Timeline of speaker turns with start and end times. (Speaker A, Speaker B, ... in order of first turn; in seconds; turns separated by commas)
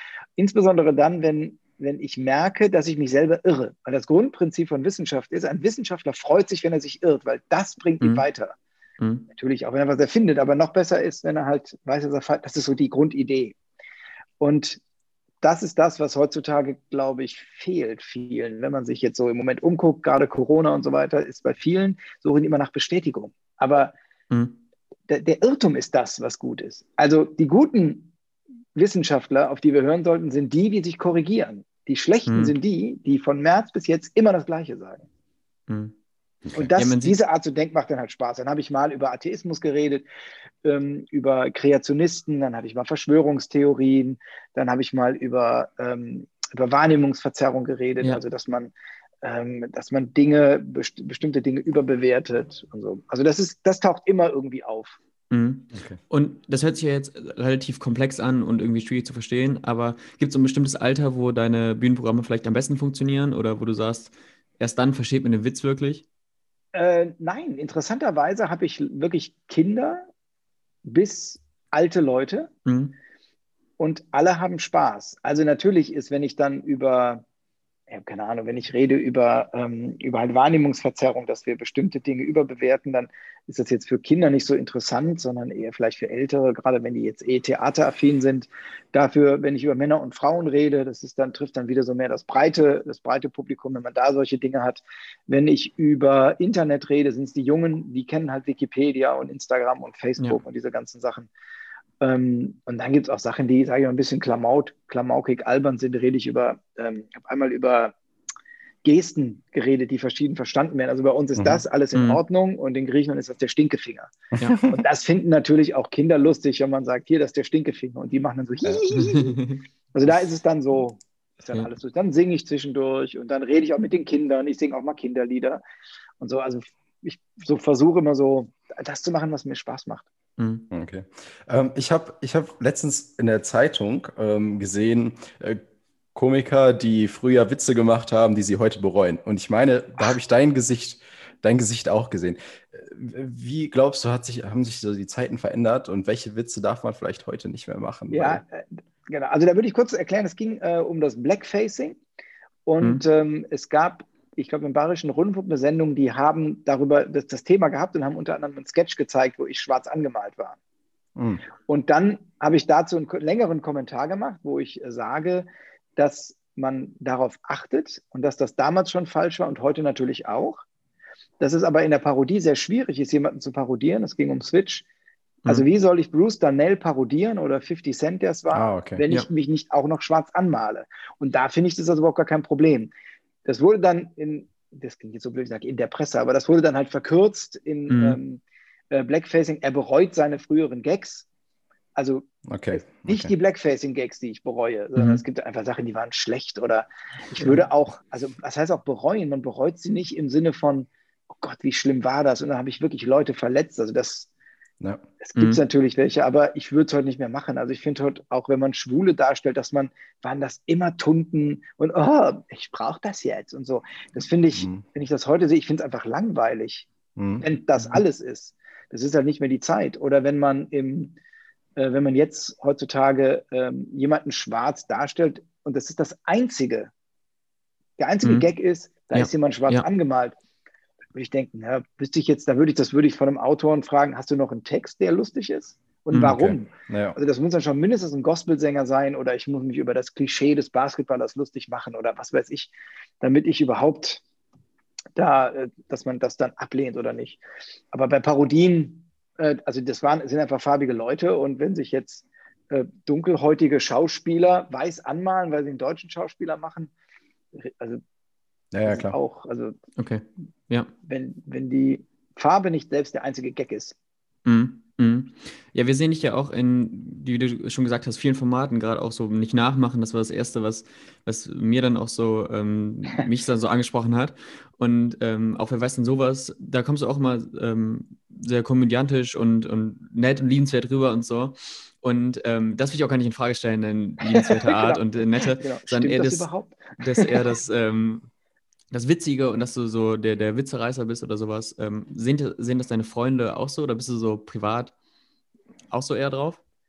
Speaker A: 0.4-8.6, Speaker B: 9.0-9.2, Speaker A: 9.3-13.5, Speaker A: 14.4-14.8, Speaker A: 15.4-23.9, Speaker B: 24.3-24.6, Speaker A: 25.1-28.1, Speaker A: 28.8-35.1, Speaker B: 32.3-32.5, Speaker B: 35.7-35.9, Speaker A: 36.5-40.0, Speaker B: 36.8-37.1, Speaker A: 40.6-55.0, Speaker B: 55.3-66.0, Speaker A: 66.7-70.1, Speaker A: 70.8-72.5, Speaker B: 72.7-72.9, Speaker A: 73.8-77.2, Speaker A: 77.9-101.3, Speaker A: 102.0-107.9, Speaker A: 108.8-119.4, Speaker C: 111.4-111.6, Speaker B: 111.9-112.2, Speaker B: 118.9-119.6, Speaker A: 119.9-125.6, Speaker A: 126.2-130.1, Speaker B: 130.4-130.7, Speaker C: 130.7-135.6, Speaker C: 136.1-148.4, Speaker A: 148.1-152.0, Speaker A: 152.7-160.6, Speaker C: 161.2-161.4, Speaker A: 161.7-170.6, Speaker A: 171.4-174.8, Speaker A: 175.5-182.9, Speaker C: 178.5-179.0, Speaker A: 183.4-191.2, Speaker B: 187.9-188.2, Speaker A: 191.9-204.3, Speaker C: 192.5-193.3, Speaker B: 194.9-195.2, Speaker B: 197.4-197.6, Speaker A: 205.2-216.9, Speaker C: 214.6-214.8, Speaker C: 217.2-217.4, Speaker A: 217.4-221.1, Speaker A: 221.8-226.9, Speaker A: 228.0-230.3, Speaker B: 229.1-229.8, Speaker A: 231.1-244.2, Speaker C: 236.2-237.2, Speaker A: 245.2-247.4, Speaker A: 247.9-256.9, Speaker A: 257.5-258.0, Speaker C: 258.7-259.1, Speaker A: 258.8-259.7, Speaker B: 260.0-260.9, Speaker A: 261.1-263.9, Speaker B: 264.4-288.3, Speaker A: 284.4-285.0, Speaker A: 285.6-287.3, Speaker B: 288.9-294.9, Speaker B: 295.9-296.6